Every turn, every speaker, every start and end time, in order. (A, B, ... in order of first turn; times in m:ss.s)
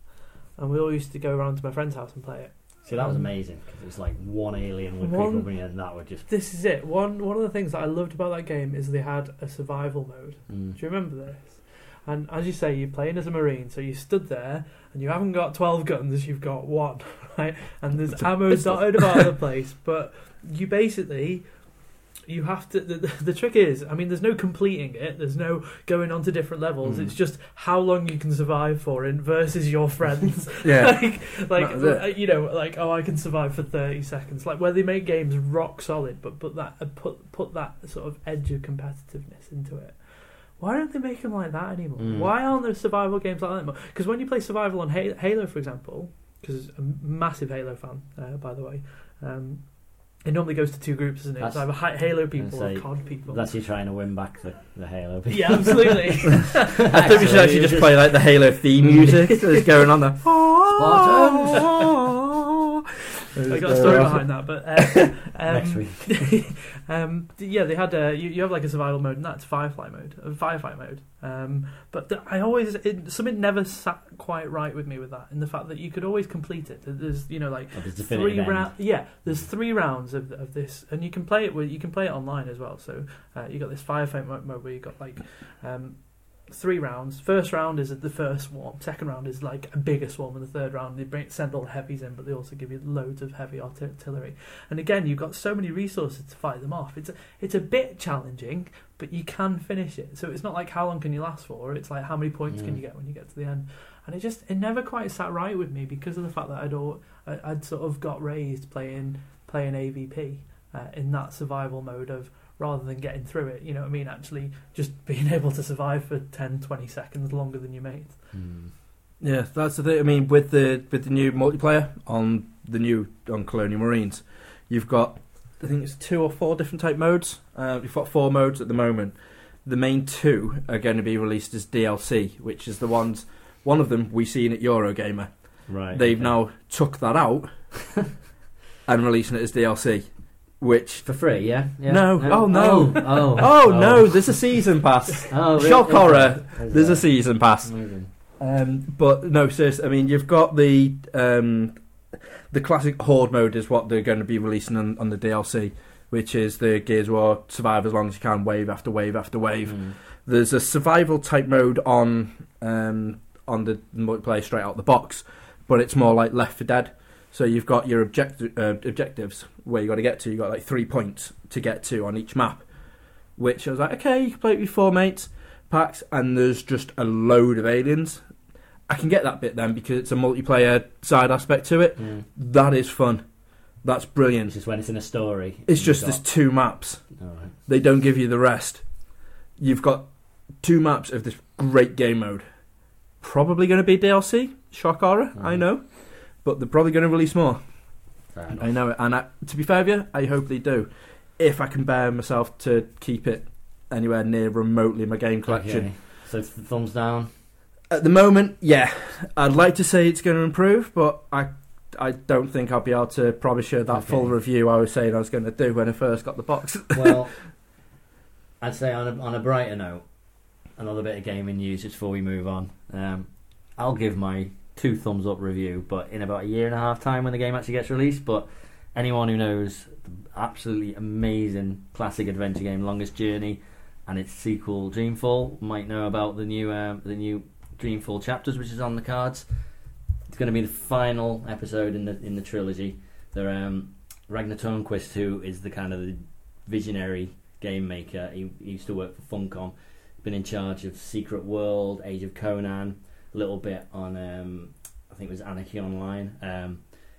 0:00.6-0:03.3 A
0:02.9-0:06.3 B
0:05.0-0:05.5 A
0:06.3-0:21.4 A
0:10.5-0:10.8 B
0:18.7-0:19.2 C
0:22.3-0:40.0 A
0:26.8-0:27.1 B
0:30.6-0:31.0 C
0:31.6-0:32.0 C
0:40.6-0:53.5 A
0:42.0-0:42.3 B
0:51.4-0:51.7 B
0:52.3-0:58.2 B
0:55.3-0:57.1 A
0:56.8-1:02.8 C
0:58.8-0:59.4 B
1:00.7-1:01.8 B
1:03.3-1:04.3 C
1:03.5-1:58.2 A
1:03.8-1:04.1 B
1:05.5-1:06.3 B
1:17.8-1:18.7 B
1:58.3-1:58.7 B
1:59.2-2:15.3 C
2:15.7-2:16.4 B
2:15.8-2:17.5 C
2:18.9-2:20.1 C
2:20.6-2:21.1 C
2:21.0-2:24.4 B
2:21.9-2:27.7 C
2:25.3-2:27.1 B
2:27.6-2:28.1 B
2:28.4-2:31.8 C
2:32.5-2:52.7 C
2:39.7-2:40.0 B
2:53.4-2:58.2 C
2:58.9-3:03.2 C
3:02.0-3:02.2 B
3:03.8-3:04.5 C
3:04.5-3:06.2 B
3:05.7-3:07.0 C
3:07.2-3:07.6 B
3:07.7-3:08.8 C
3:09.6-3:10.1 C
3:10.6-3:12.4 C
3:13.2-3:15.9 C
3:15.4-3:15.6 B
3:16.4-3:17.6 C
3:18.3-3:18.7 B
3:18.5-3:25.9 C
3:25.5-3:27.3 B
3:27.9-3:37.2 C
3:33.9-3:34.3 B
3:36.9-3:37.4 B
3:38.6-3:40.1 B
3:40.7-3:59.5 B
4:00.3-4:16.9 B